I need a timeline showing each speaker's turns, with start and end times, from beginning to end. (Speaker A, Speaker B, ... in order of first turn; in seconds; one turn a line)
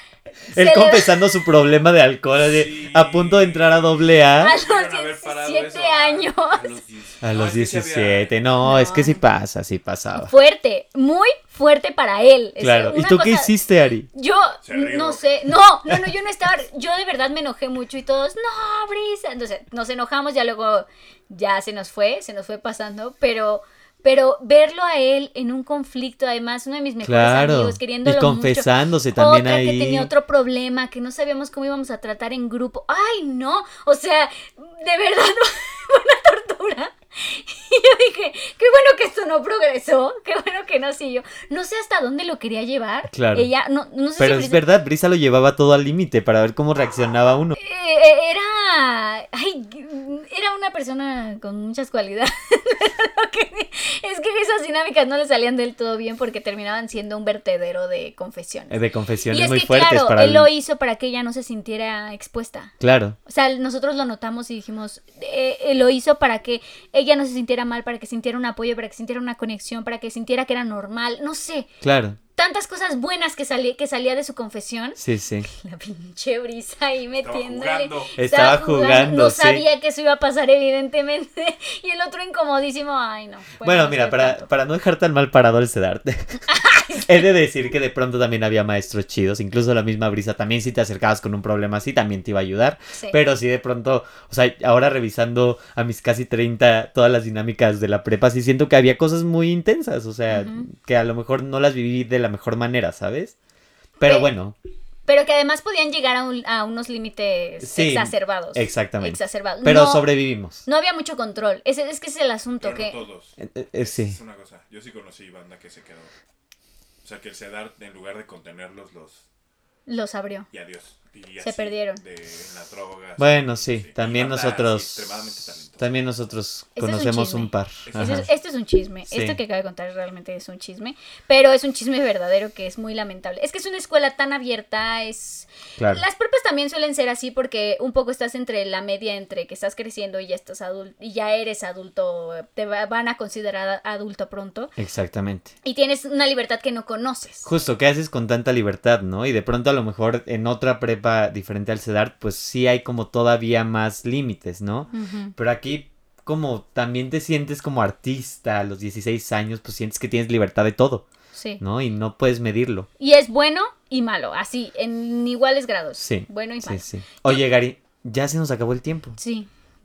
Speaker A: 0.5-4.6
Speaker B: 0.5-1.3
Speaker C: 2.4-8.3
Speaker B: 4.4-6.7
Speaker A: 7.2-10.3
Speaker B: 8.6-9.2
Speaker B: 10.1-13.5
Speaker A: 12.6-14.1
Speaker B: 14.1-44.6
Speaker C: 14.6-15.2
Speaker A: 27.0-30.1
Speaker A: 43.1-43.5
Speaker A: 44.2-47.5
Speaker B: 47.6-58.8
Speaker A: 58.7-60.5
Speaker B: 59.3-62.7
Speaker A: 62.8-63.2
Speaker B: 63.3-71.7
Speaker A: 71.8-72.2
Speaker B: 72.4-84.5
Speaker A: 75.0-75.5
Speaker C: 77.2-78.2
Speaker A: 78.2-79.6
Speaker A: 83.6-86.4
Speaker B: 86.5-87.2
Speaker A: 87.0-103.4
Speaker B: 92.9-93.2
Speaker B: 100.3-100.7
Speaker A: 104.0-104.6
Speaker B: 104.0-104.3
Speaker B: 105.1-110.1
Speaker A: 107.6-110.6
Speaker B: 110.6-113.0
Speaker C: 112.6-116.1
Speaker A: 113.4-114.2
Speaker C: 117.0-119.2
Speaker B: 119.9-120.5
Speaker C: 120.5-125.9
Speaker B: 121.4-122.0
Speaker A: 123.2-125.1
Speaker A: 125.8-128.3
Speaker B: 126.8-144.7
Speaker C: 127.9-128.2
Speaker A: 129.1-129.4
Speaker A: 135.8-136.0
Speaker A: 144.8-145.5
Speaker B: 145.6-147.5
Speaker A: 147.4-161.1
Speaker B: 154.9-155.3
Speaker B: 161.3-161.6
Speaker A: 161.6-162.9
Speaker B: 163.0-167.4
Speaker A: 166.0-169.2
Speaker B: 169.2-169.5